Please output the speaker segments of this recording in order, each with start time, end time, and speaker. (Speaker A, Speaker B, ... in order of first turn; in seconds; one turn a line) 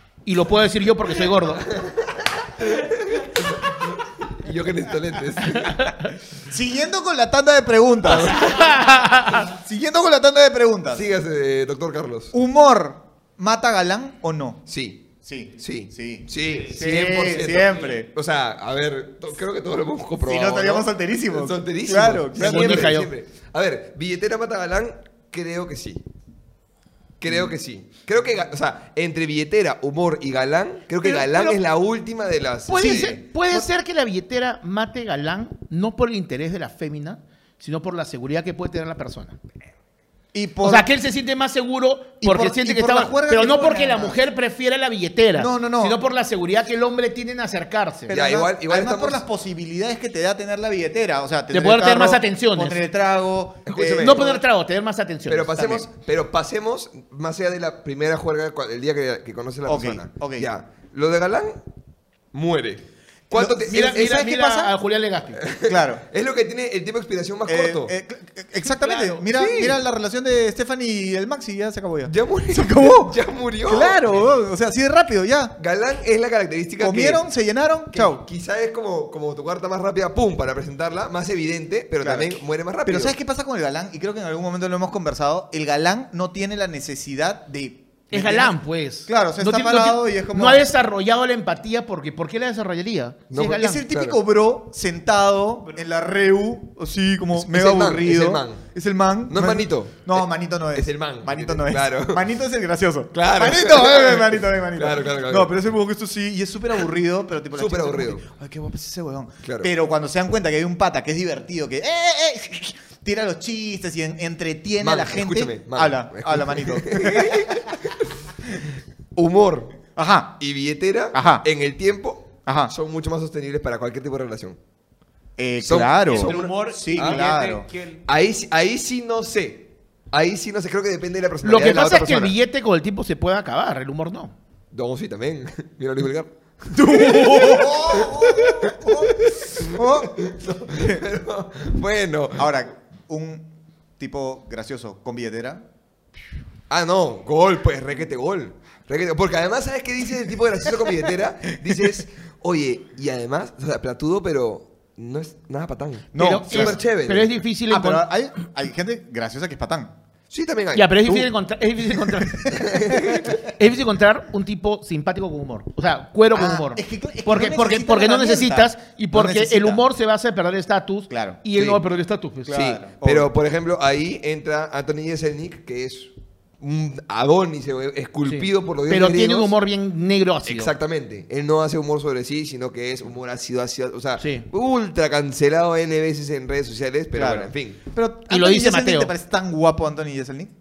Speaker A: 0.2-1.7
Speaker B: 1.5-6.0
Speaker C: 6.5-8.5
Speaker B: 8.1-8.8
Speaker A: 8.3-9.5
Speaker C: 9.3-11.1
Speaker B: 10.9-12.3
Speaker C: 12.3-14.6
Speaker B: 14.7-15.1
Speaker C: 15.2-18.1
Speaker B: 15.6-26.0
Speaker D: 16.4-18.0
Speaker C: 20.2-23.0
Speaker A: 22.4-23.1
Speaker B: 27.2-33.2
Speaker A: 31.0-31.6
Speaker A: 32.7-39.4
Speaker C: 32.8-33.7
Speaker C: 40.3-40.9
Speaker A: 40.6-48.1
Speaker C: 42.2-44.2
Speaker C: 45.4-46.0
Speaker C: 48.1-54.4
Speaker B: 48.1-49.2
Speaker A: 51.5-52.8
Speaker B: 53.7-54.4
Speaker A: 54.0-55.9
Speaker B: 55.3-61.6
Speaker C: 59.7-60.5
Speaker B: 62.3-64.3
Speaker C: 63.3-64.7
Speaker A: 63.7-65.5
Speaker B: 65.4-68.0
Speaker C: 65.7-66.0
Speaker C: 67.5-75.6
Speaker A: 68.8-69.2
Speaker B: 69.3-69.8
Speaker B: 72.1-74.1
Speaker B: 75.6-77.2
Speaker C: 76.8-78.2
Speaker B: 77.9-83.2
Speaker C: 82.0-82.3
Speaker C: 82.8-90.7
Speaker A: 88.1-93.8
Speaker B: 93.3-94.2
Speaker C: 93.4-117.7
Speaker B: 97.4-98.6
Speaker B: 99.3-102.2
Speaker B: 103.1-105.5
Speaker B: 107.5-108.3
Speaker B: 109.4-109.7
Speaker B: 114.8-118.1
Speaker B: 119.2-119.8
Speaker C: 120.0-120.4
Speaker B: 120.4-124.6
Speaker C: 121.1-121.5
Speaker C: 122.5-122.7
Speaker C: 125.4-127.7
Speaker B: 125.6-127.2
Speaker D: 126.1-128.0
Speaker B: 128.1-132.3
Speaker A: 131.4-134.3
Speaker B: 134.7-142.5
Speaker C: 136.7-140.2
Speaker C: 140.7-141.0
Speaker C: 142.3-145.6
Speaker B: 146.7-157.3
Speaker C: 156.1-156.8
Speaker A: 156.2-158.1
Speaker C: 157.7-159.9
Speaker B: 160.3-161.3
Speaker A: 160.7-172.7
Speaker C: 162.4-163.3
Speaker B: 162.5-163.3
Speaker C: 166.3-169.9
Speaker C: 171.1-171.4
Speaker B: 171.6-171.8
Speaker C: 172.5-173.3
Speaker B: 172.5-179.5
Speaker A: 178.3-180.7
Speaker B: 180.4-187.8
Speaker A: 184.2-184.5
Speaker C: 187.1-190.5
Speaker A: 188.3-189.1